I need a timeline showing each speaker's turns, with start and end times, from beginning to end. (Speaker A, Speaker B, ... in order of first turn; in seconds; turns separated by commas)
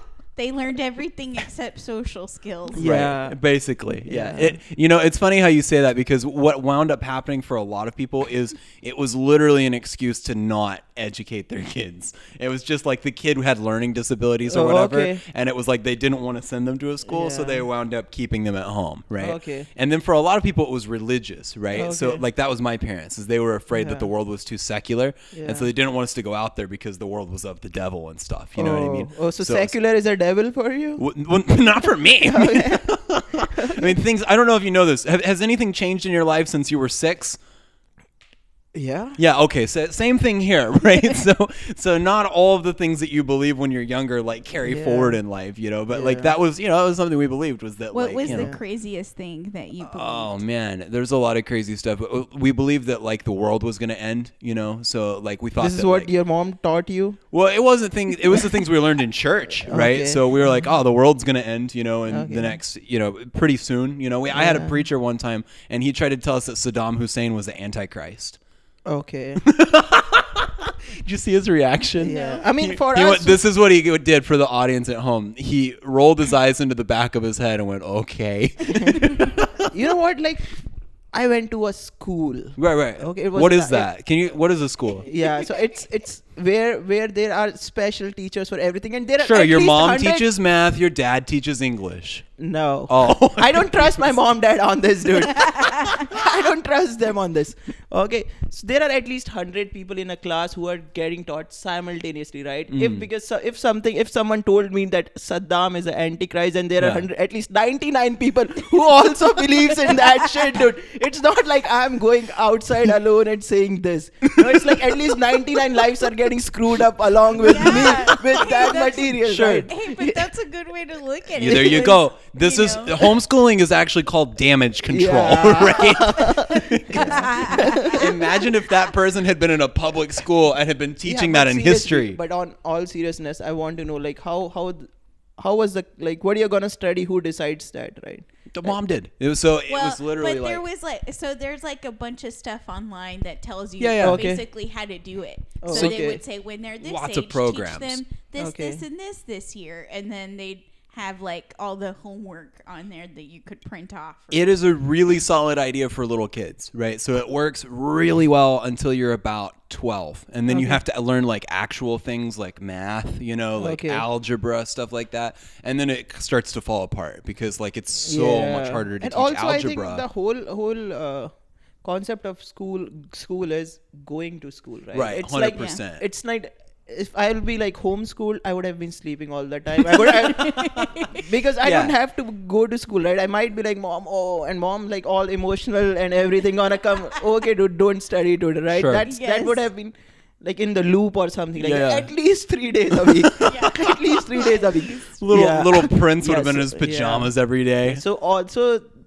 Speaker A: 0.3-2.9, Speaker B: 2.7-3.4, Speaker C: 2.7-29.7, Speaker B: 4.0-4.6, Speaker B: 14.5-15.2, Speaker B: 17.1-17.7, Speaker B: 19.2-19.7, Speaker B: 21.7-22.2, Speaker B: 23.7-24.1, Speaker B: 25.3-25.7, Speaker B: 28.6-31.0, Speaker C: 31.0-37.4, Speaker B: 32.2-32.9, Speaker B: 33.4-33.9, Speaker B: 38.7-39.2, Speaker C: 39.2-48.5, Speaker B: 44.6-45.2, Speaker B: 45.9-46.3, Speaker A: 47.9-50.4, Speaker B: 48.2-48.6, Speaker C: 49.8-56.1, Speaker B: 55.6-57.2, Speaker C: 57.3-68.4, Speaker B: 59.7-60.5, Speaker B: 62.1-62.6, Speaker B: 64.3-64.8, Speaker B: 68.8-69.4, Speaker C: 69.4-79.7, Speaker B: 72.0-73.4, Speaker B: 78.7-83.9, Speaker C: 82.6-85.1, Speaker B: 85.0-90.3, Speaker C: 89.2-92.2, Speaker B: 92.4-120.2, Speaker C: 92.9-94.0, Speaker A: 95.7-96.0, Speaker C: 102.7-103.0, Speaker C: 106.8-107.0, Speaker C: 114.3-115.0, Speaker C: 117.4-118.2, Speaker A: 117.4-123.1, Speaker C: 119.1-119.7, Speaker C: 121.4-132.2, Speaker B: 121.4-121.9, Speaker B: 124.9-128.1, Speaker A: 126.9-128.5, Speaker B: 131.0-138.7, Speaker C: 138.5-140.6, Speaker A: 139.7-154.5, Speaker C: 143.8-144.3, Speaker B: 144.0-144.4, Speaker B: 145.6-146.2, Speaker C: 145.7-146.1, Speaker C: 146.8-148.0, Speaker B: 148.4-148.8, Speaker C: 154.3-170.0, Speaker B: 160.5-160.8, Speaker B: 163.6-164.0, Speaker B: 168.0-171.3, Speaker B: 171.8-197.3, Speaker C: 174.9-176.0, Speaker C: 180.0-180.9, Speaker A: 180.2-181.2, Speaker C: 181.6-181.9, Speaker C: 188.7-189.1, Speaker A: 189.0-189.6, Speaker C: 191.6-192.1, Speaker C: 192.9-193.9, Speaker A: 193.4-195.2, Speaker C: 195.2-198.0, Speaker B: 197.8-198.8